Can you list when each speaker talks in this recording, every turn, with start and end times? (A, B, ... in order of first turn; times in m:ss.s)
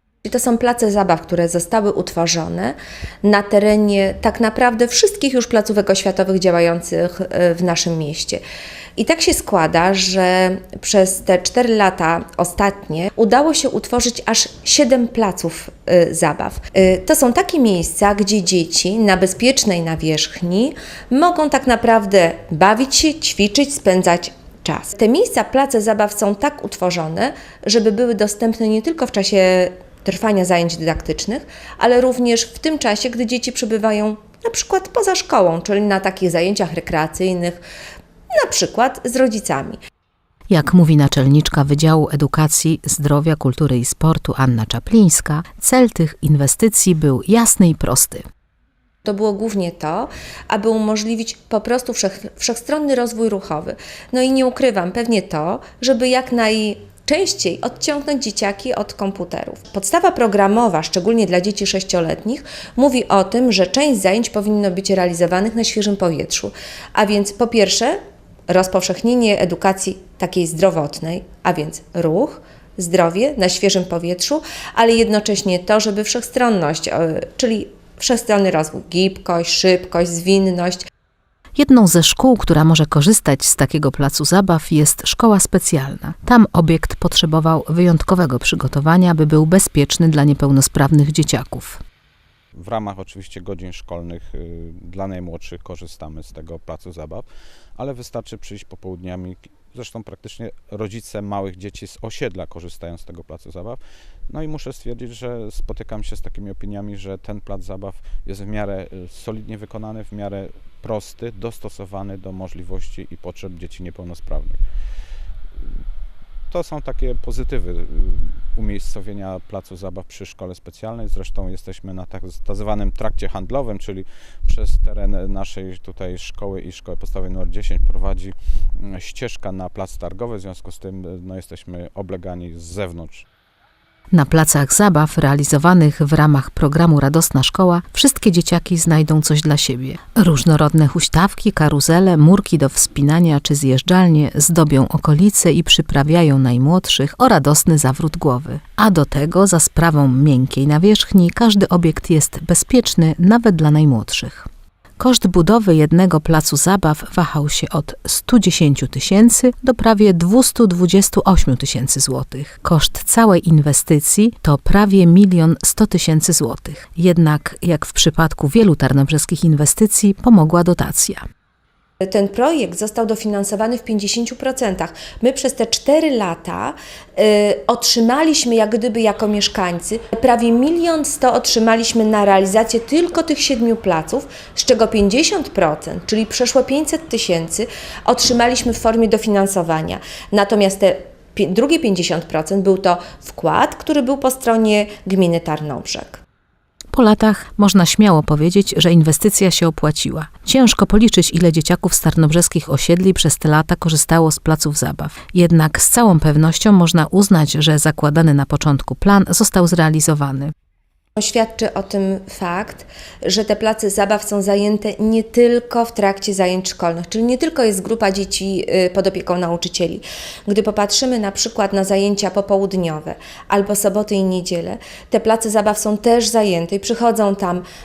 0:00.2-0:08.4 A
0:09.0-0:37.6 A
0:38.3-0:39.8 A
0:40.5-0:48.2 B
0:49.0-1:08.0 A
1:08.5-1:20.8 A
1:21.6-1:31.8 B
1:32.6-1:37.3 C
1:37.8-1:54.6 C
1:56.5-2:13.2 C
2:14.1-2:34.5 B
2:35.0-2:51.2 B
2:52.0-3:16.2 A
3:16.9-3:30.5 B
3:31.2-3:47.6 A